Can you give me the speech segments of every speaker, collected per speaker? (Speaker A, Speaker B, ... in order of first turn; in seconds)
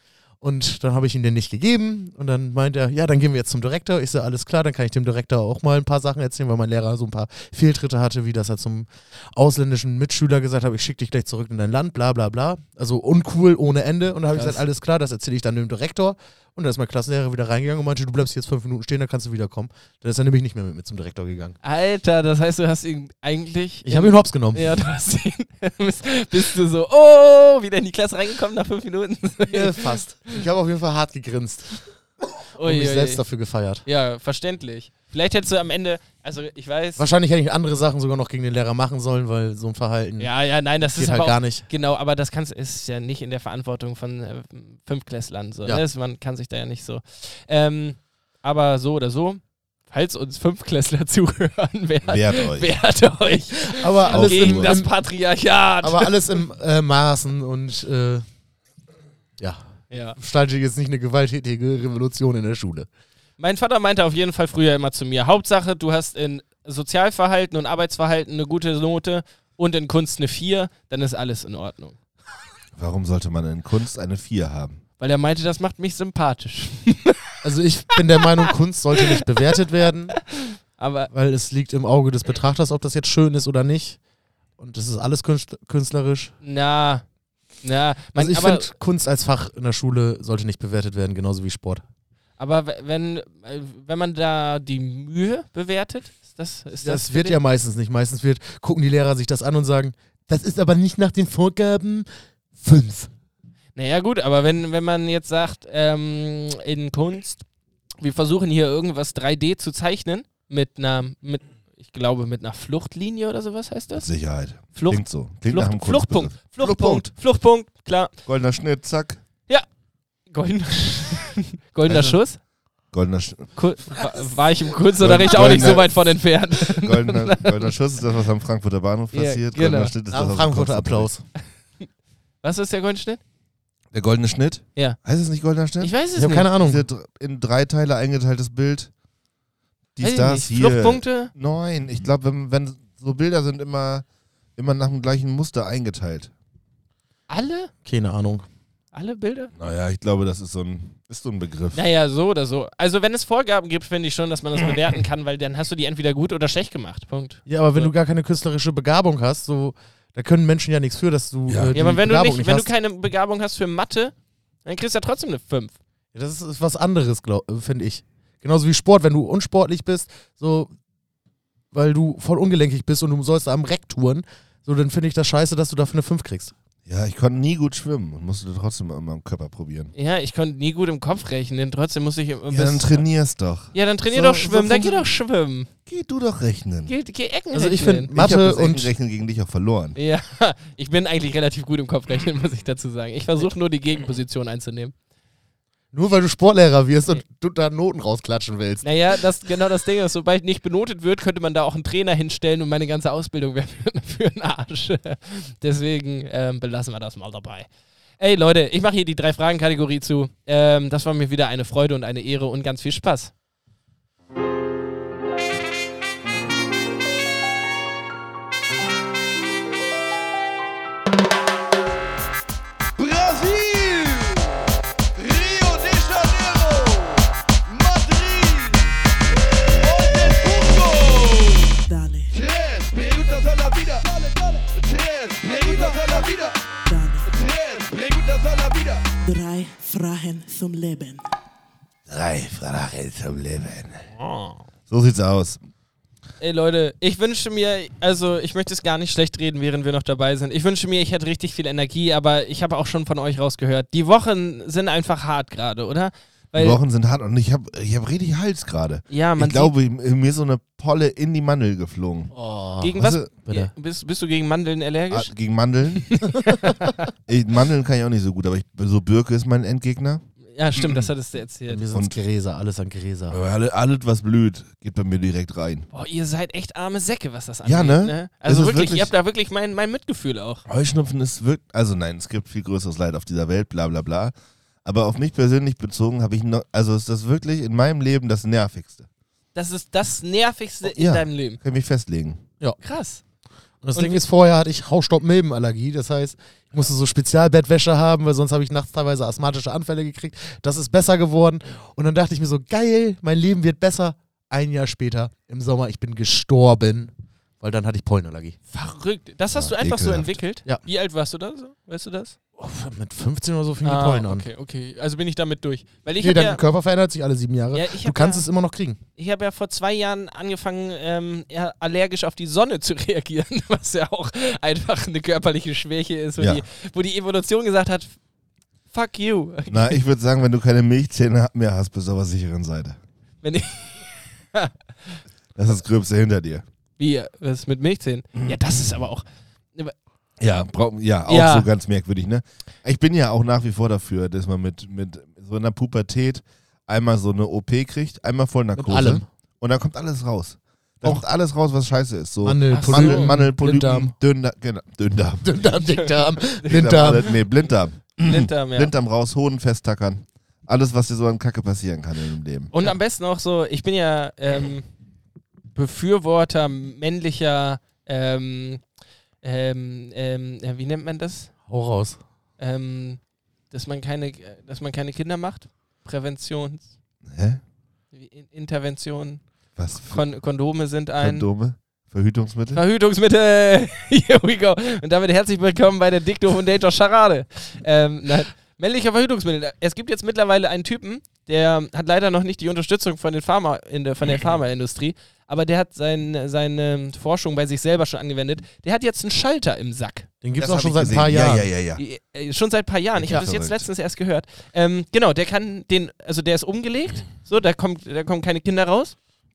Speaker A: 0.4-21.6, 23.9-24.7, 29.5-31.9, 32.6-33.9, 37.0-40.3, 41.0-41.7, 53.6-54.9, 55.8-58.2, 60.2-62.9, 77.4-80.2, 81.1-84.0, 84.6-86.3, 88.2-91.8, 96.8-103.1, 130.1-131.2, 136.2-136.8, 147.8-148.5, 157.5-162.7, 166.1-170.7, 171.7-176.5, 187.5-188.9, 195.9-198.8, 262.3-263.7, 271.7-273.4, 293.8-308.6, 312.6-314.5, 316.2-319.0, 348.8-349.2, 352.4-354.1, 355.4-357.3, 371.7-372.2, 400.4-401.7
Speaker B: 14.3-14.6, 21.6-30.3, 32.6-33.2, 33.9-37.1, 40.2-56.2, 59.9-60.2, 63.4-72.0, 75.0-77.3, 80.3-81.1, 86.4-87.0, 87.6-88.7, 92.4-97.4, 103.8-107.4, 108.0-114.1, 114.7-118.1, 120.3-122.4, 123.6-127.7, 129.1-129.9, 132.4-133.2, 135.8-136.5, 140.0-141.3, 147.3-147.7, 148.9-149.5, 151.7-157.9, 161.8-164.1, 164.7-165.8, 179.9-183.0, 183.7-185.7, 186.9-188.1, 189.9-194.9, 198.8-213.3, 244.2-244.6, 246.4-256.8, 259.1-259.7, 262.8-265.3, 266.0-266.9, 270.6-271.8, 275.9-280.6, 289.6-291.6, 292.8-293.2, 294.0-294.2, 308.7-312.4, 313.8-316.6, 317.7-318.4, 319.2-328.1, 328.9-330.0, 333.4-335.2, 337.0-339.9, 341.3-341.7, 352.7-353.4, 355.9-357.5, 358.2-358.9, 362.7-364.9, 365.8-368.8, 369.4-371.5, 372.6-376.9, 378.1-379.4, 380.0-381.5, 382.7-400.3, 402.0-409.2
Speaker C: 52.1-52.8, 54.1-54.8, 72.8-74.8, 114.0-117.1, 118.3-119.2, 121.9-122.2, 122.9-123.5, 125.0-125.9, 126.8-131.1, 133.9-135.9, 136.6-138.9, 140.0-144.1, 144.6-146.3, 149.6-151.8, 161.5-161.8, 176.9-179.9, 182.5-185.0, 185.9-186.9, 188.2-190.0, 242.1-244.1, 244.9-245.6, 256.6-262.3, 263.0-263.3, 265.1-266.2, 267.3-270.2, 270.8-271.1, 273.3-275.9, 277.6-279.1, 280.7-284.3, 284.9-289.1, 290.9-292.4, 309.6-310.4, 329.7-333.0, 335.6-336.6, 340.4-355.7, 356.7-362.7, 377.2-377.6, 379.8-380.2, 381.2-382.8, 400.6-402.0, 403.2-403.9
Speaker D: 223.0-228.9, 229.7-231.8, 232.3-236.7, 237.3-239.1
Speaker E: 231.8-232.3, 236.9-237.3, 239.2-241.2